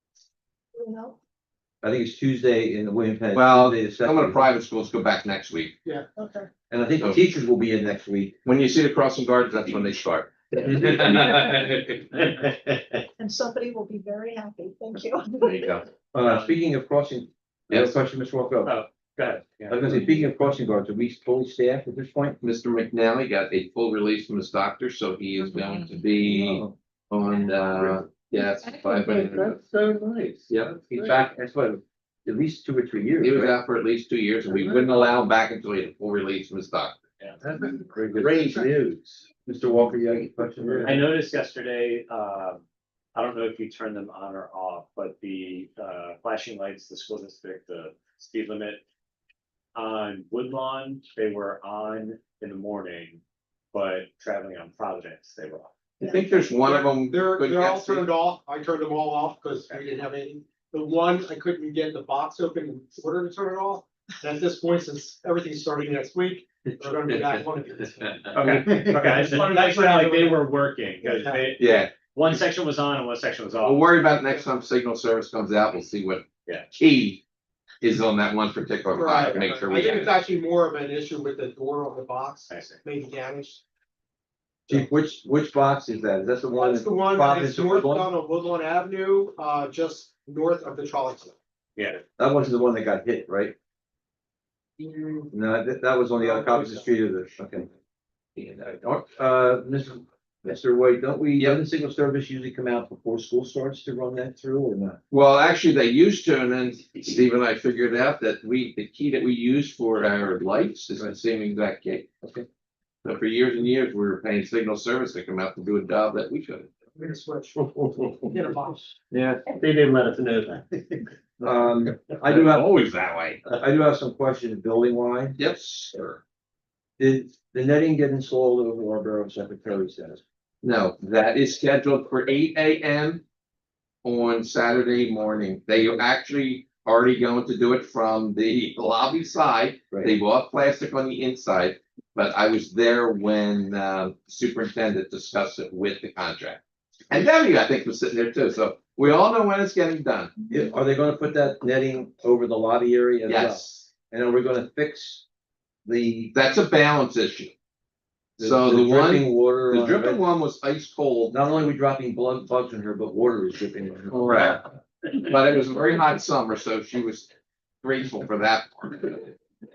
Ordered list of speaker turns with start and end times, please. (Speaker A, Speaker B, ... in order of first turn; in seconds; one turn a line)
Speaker A: 0.7-1.2
Speaker B: 1.8-4.4
Speaker C: 3.3-5.8
Speaker A: 6.2-6.5
Speaker B: 6.7-8.3
Speaker C: 8.4-12.2
Speaker A: 13.2-15.7
Speaker C: 15.4-15.8
Speaker B: 16.1-18.8
Speaker D: 16.2-16.6
Speaker D: 18.6-20.2
Speaker B: 19.7-22.4
Speaker C: 22.4-29.6
Speaker B: 26.3-26.7
Speaker E: 29.8-30.3
Speaker C: 30.5-30.9
Speaker B: 30.9-33.5
Speaker C: 33.2-37.0
Speaker B: 37.4-41.1
Speaker D: 40.8-42.6
Speaker D: 43.1-48.8
Speaker D: 49.7-53.2
Speaker D: 53.7-55.7
Speaker C: 56.0-58.1
Speaker F: 56.6-68.4
Speaker D: 68.3-73.9
Speaker F: 69.1-71.5
Speaker C: 71.5-71.9
Speaker C: 73.6-77.2
Speaker C: 77.8-80.2
Speaker F: 78.9-83.6
Speaker D: 82.5-82.8
Speaker B: 84.7-88.1
Speaker F: 86.6-91.3
Speaker D: 91.8-92.0
Speaker B: 92.2-93.5
Speaker B: 95.3-97.7
Speaker B: 98.4-105.0
Speaker C: 105.1-112.1
Speaker C: 113.0-116.7
Speaker F: 117.0-118.9
Speaker C: 119.1-119.4
Speaker E: 119.5-120.8
Speaker B: 121.4-122.7
Speaker C: 122.2-123.5
Speaker B: 123.5-125.3
Speaker C: 125.3-126.2
Speaker B: 127.0-130.2
Speaker C: 130.6-133.2
Speaker C: 134.0-150.3
Speaker B: 150.5-155.2
Speaker C: 153.2-153.9
Speaker B: 155.8-156.3
Speaker C: 156.3-157.5
Speaker B: 158.4-160.2
Speaker C: 158.4-161.4
Speaker B: 161.3-164.6
Speaker C: 164.1-167.3
Speaker C: 167.8-169.3